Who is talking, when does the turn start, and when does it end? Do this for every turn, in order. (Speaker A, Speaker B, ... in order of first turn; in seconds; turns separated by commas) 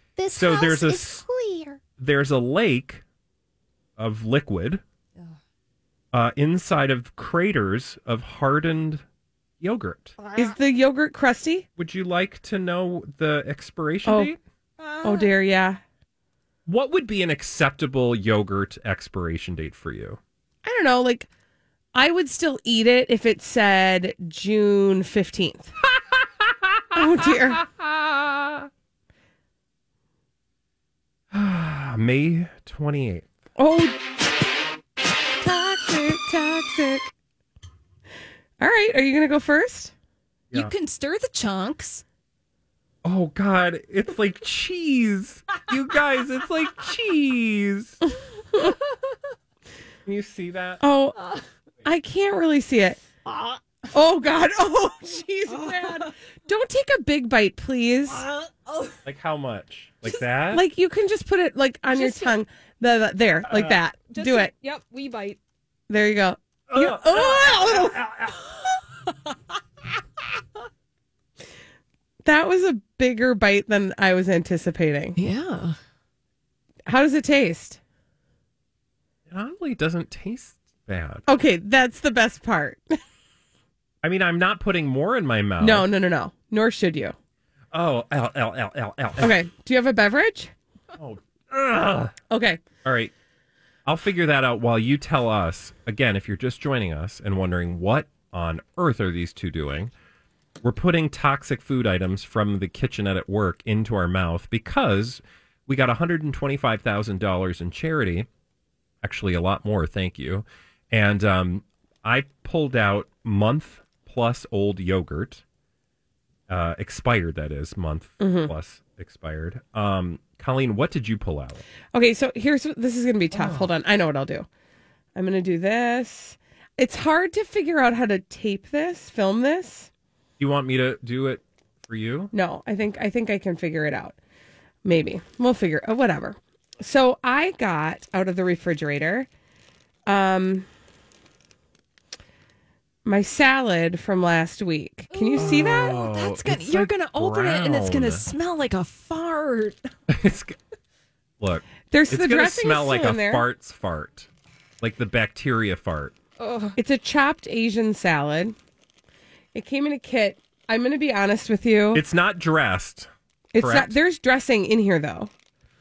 Speaker A: 0.2-1.8, Speaker B: 0.3-1.2, Speaker B: 2.0-3.0, Speaker B: 4.0-4.8, Speaker B: 6.1-9.0, Speaker B: 9.6-10.1, Speaker A: 10.2-10.5, Speaker C: 10.3-11.7, Speaker B: 11.8-14.4, Speaker C: 14.0-14.3, Speaker A: 14.8-15.3, Speaker C: 15.0-15.8, Speaker B: 16.7-20.2, Speaker C: 20.6-21.3, Speaker C: 21.9-25.7, Speaker B: 26.1-28.6, Speaker C: 26.9-27.6, Speaker B: 31.3-33.3, Speaker C: 33.6-34.0, Speaker C: 35.4-37.0, Speaker C: 38.6-39.9, Speaker A: 40.5-42.0, Speaker B: 43.0-48.0, Speaker B: 50.0-50.8, Speaker C: 50.8-51.2, Speaker C: 51.8-53.0, Speaker A: 53.3-53.6, Speaker C: 53.9-58.2, Speaker A: 58.2-58.9, Speaker B: 59.0-60.6, Speaker C: 60.5-64.5, Speaker A: 61.9-62.4, Speaker B: 63.5-63.8, Speaker A: 64.1-65.4, Speaker C: 65.9-68.0, Speaker B: 66.7-68.4, Speaker C: 72.2-75.2, Speaker A: 75.2-75.8, Speaker C: 76.8-77.8, Speaker B: 79.3-81.2, Speaker C: 81.3-82.8, Speaker B: 84.0-85.9, Speaker C: 85.6-87.1, Speaker B: 87.7-89.3, Speaker C: 89.2-90.5, Speaker B: 91.0-92.1, Speaker C: 92.3-92.6, Speaker B: 92.8-93.1, Speaker B: 93.8-99.9, Speaker B: 100.6-108.3, Speaker B: 109.0-115.4, Speaker B: 116.5-121.6, Speaker C: 118.2-118.5, Speaker C: 121.9-124.5, Speaker B: 123.3-123.7, Speaker C: 125.1-129.9, Speaker B: 130.4-132.3, Speaker C: 132.3-134.2, Speaker C: 134.8-139.3, Speaker C: 140.1-140.7, Speaker C: 143.0-146.0, Speaker A: 145.1-149.8, Speaker B: 145.3-148.2, Speaker B: 150.1-150.6, Speaker B: 151.4-154.3, Speaker C: 151.9-153.4, Speaker B: 154.8-156.1, Speaker A: 156.4-156.8, Speaker C: 156.8-158.5, Speaker C: 159.5-162.0, Speaker B: 161.9-163.9, Speaker C: 163.5-165.3